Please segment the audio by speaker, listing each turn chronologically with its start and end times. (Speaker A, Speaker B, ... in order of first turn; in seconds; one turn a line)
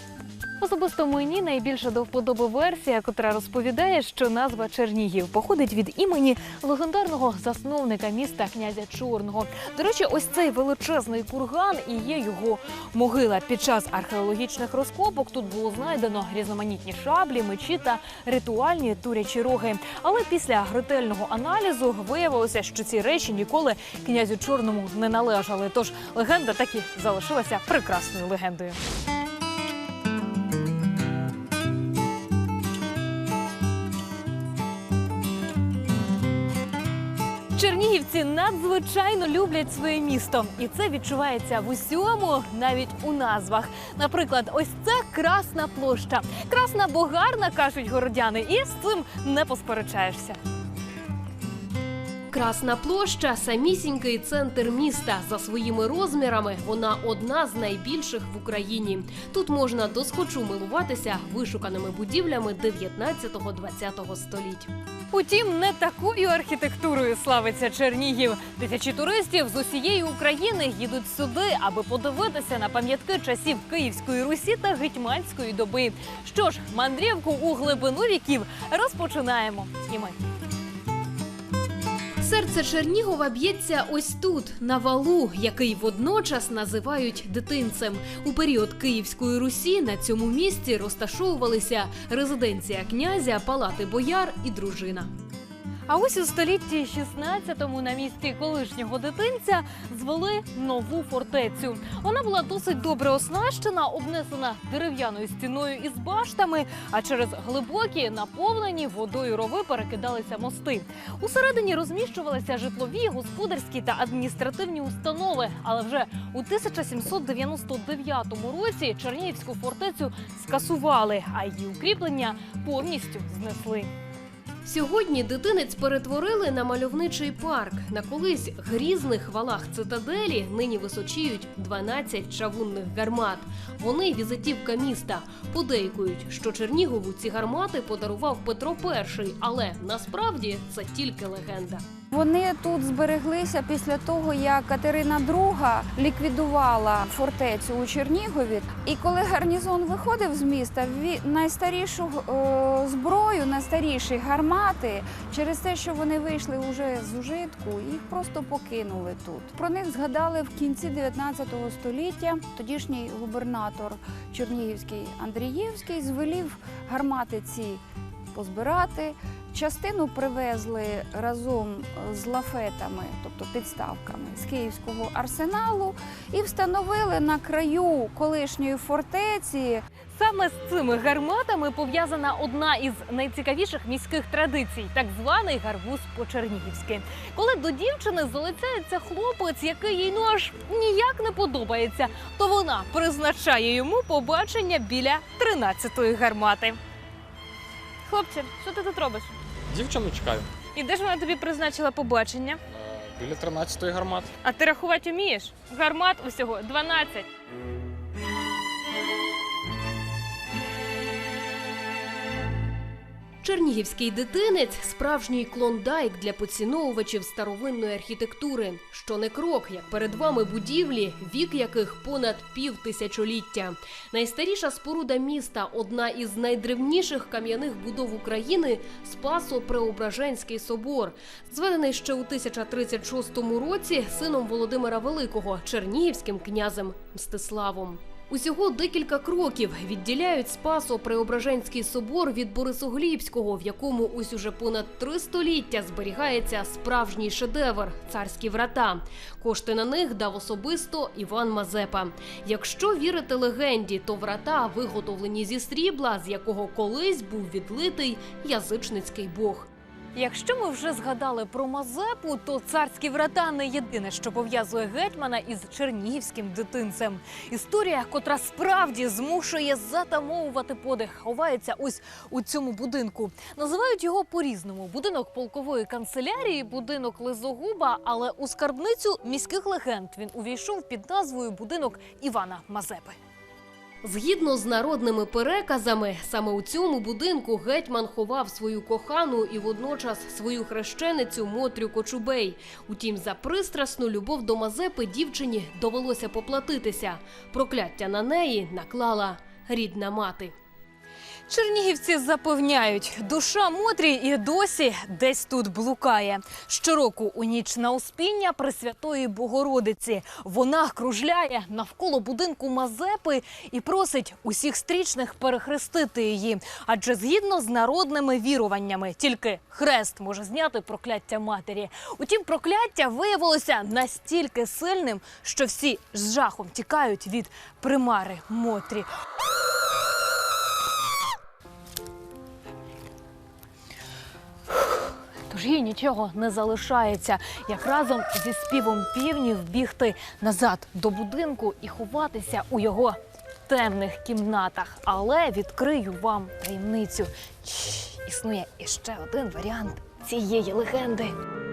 Speaker A: 0.6-28.8
Speaker A: 37.5-50.4
Speaker B: 52.3-64.7
Speaker A: 65.1-80.2
Speaker B: 82.2-95.1
Speaker A: 95.9-123.9
Speaker B: 124.6-141.8
Speaker C: 142.1-167.8
Speaker C: 168.3-179.8
Speaker A: 180.2-196.8
Speaker A: 198.1-199.3
Speaker D: 199.7-200.5
Speaker A: 200.7-202.6
Speaker D: 202.7-204.3
Speaker A: 204.4-207.2
Speaker B: 213.4-259.7
Speaker A: 260.1-283.2
Speaker B: 284.0-300.5
Speaker A: 301.5-329.1
Speaker A: 335.5-351.3